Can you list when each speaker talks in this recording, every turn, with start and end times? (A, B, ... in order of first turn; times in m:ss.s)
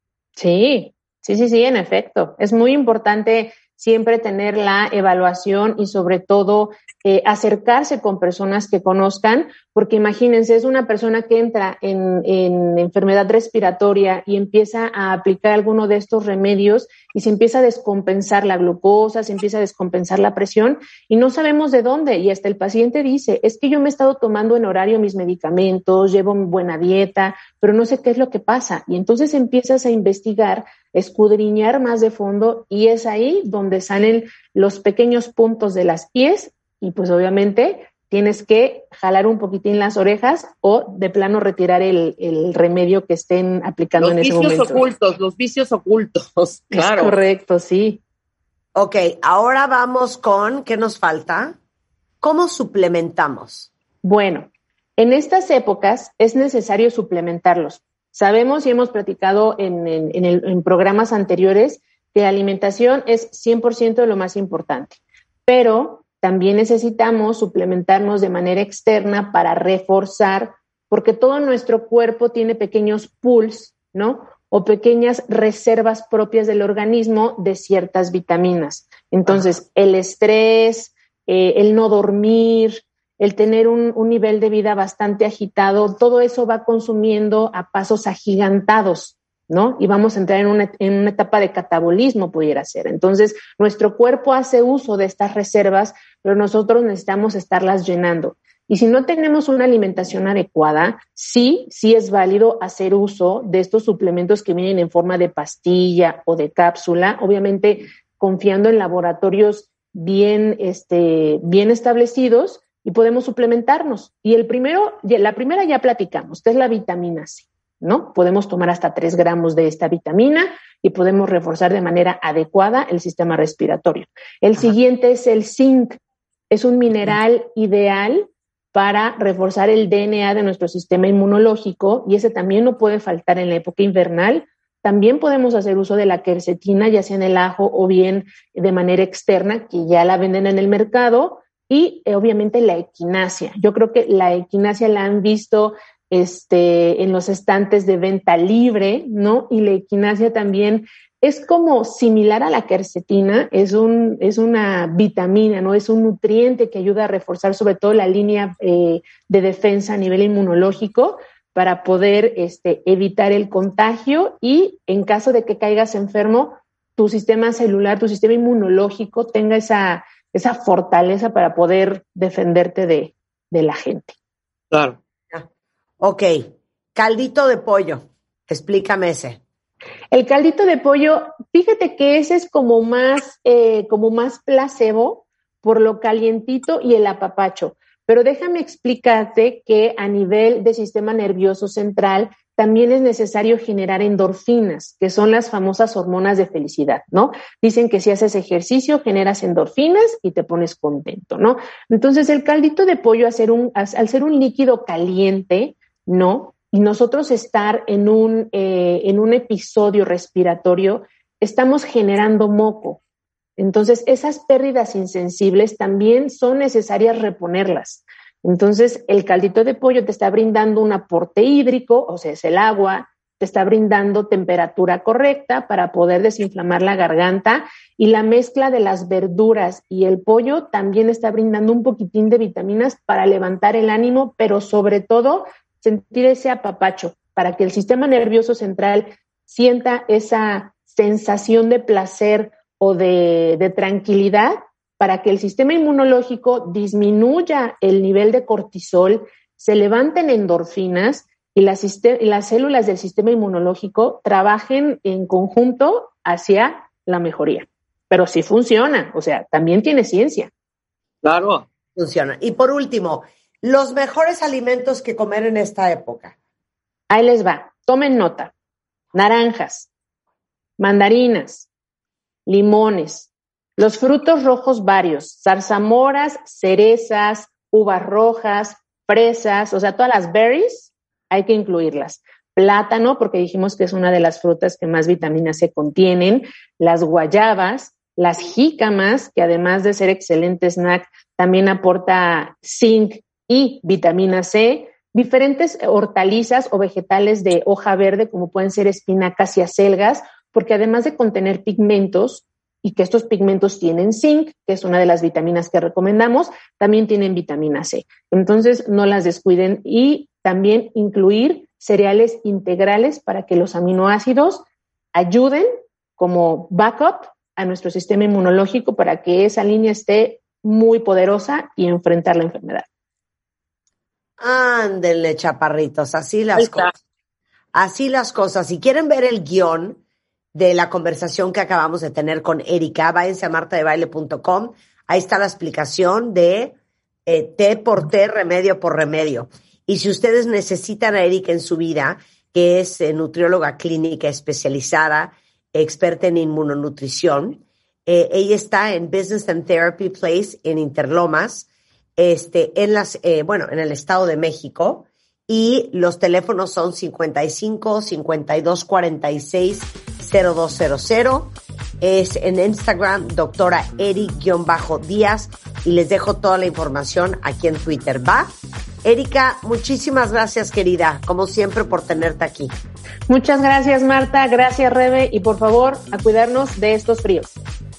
0:00.4-0:44.8 A
0:44.0-0:47.2 B
0:46.7-0:48.0 A
0:48.8-0:51.6 C
0:52.2-0:53.7 C
0:54.0-2:06.0 A
2:06.5-2:54.2 A
2:54.7-2:55.0 B
2:56.0-2:59.4 C
3:00.1-3:33.0 A
3:33.6-4:20.5 A
4:21.2-4:21.6 B
4:22.0-4:26.4 C
4:27.1-4:28.5 A
4:29.1-4:29.9 A
4:30.8-4:31.7 A
4:32.5-5:22.9 A
5:24.4-5:26.9 C
5:26.6-5:26.9 B
5:27.7-5:30.0 C
5:30.5-6:08.5 C
6:09.0-6:12.7 C
6:13.3-6:17.6 A